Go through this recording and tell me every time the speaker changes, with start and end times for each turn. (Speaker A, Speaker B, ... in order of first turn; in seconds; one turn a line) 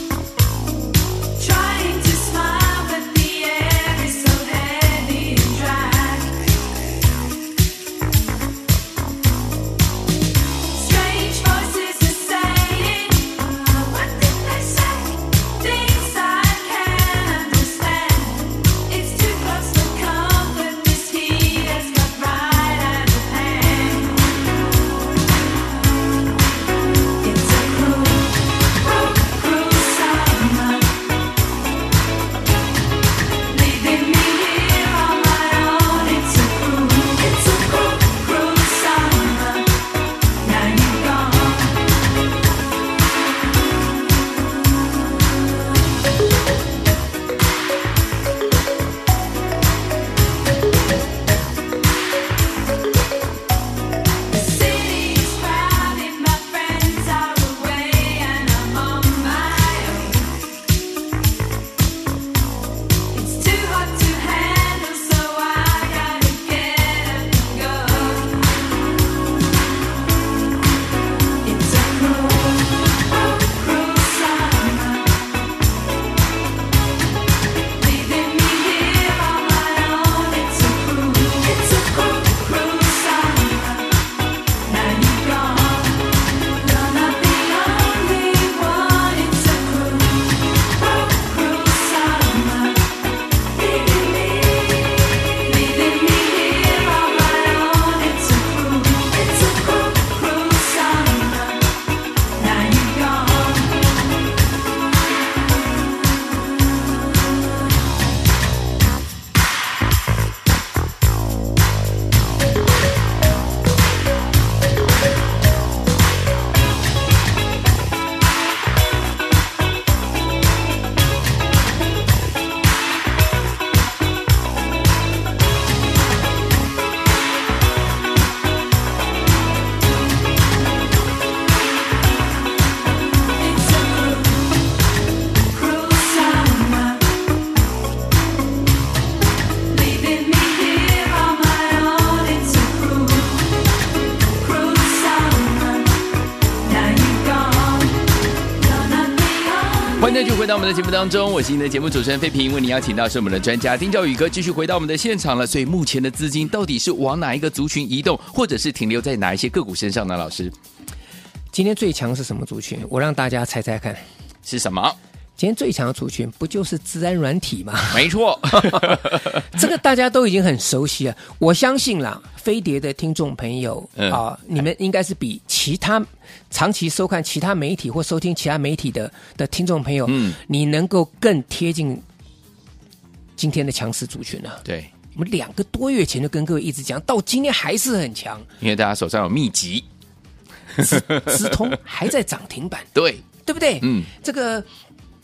Speaker A: 1.4-6.4
Speaker A: 10.7-24.3
Speaker A: 27.2-31.0
Speaker A: 33.5-39.8
Speaker A: 40.4-41.7
Speaker A: 54.3-60.3
Speaker A: 63.1-68.4
Speaker A: 71.4-75.2
Speaker A: 77.8-83.9
Speaker A: 84.7-92.9
Speaker A: 93.6-101.6
Speaker A: 102.4-103.7
Speaker A: 133.4-134.5
Speaker A: 135.5-137.0
Speaker A: 139.7-143.4
Speaker A: 144.4-145.9
Speaker A: 146.7-147.9
Speaker A: 148.7-149.9
Speaker B: 149.9-160.5
Speaker C: 161.5-164.0
Speaker B: 164.4-165.0
Speaker C: 165.4-182.0
Speaker B: 167.9-169.4
Speaker B: 180.1-180.4
Speaker C: 183.4-184.6
Speaker B: 184.6-184.9
Speaker C: 185.1-188.5
Speaker B: 188.6-189.8
Speaker B: 190.8-191.4
Speaker C: 190.8-192.9
Speaker B: 192.9-193.2
Speaker C: 193.4-194.7
Speaker B: 193.8-194.1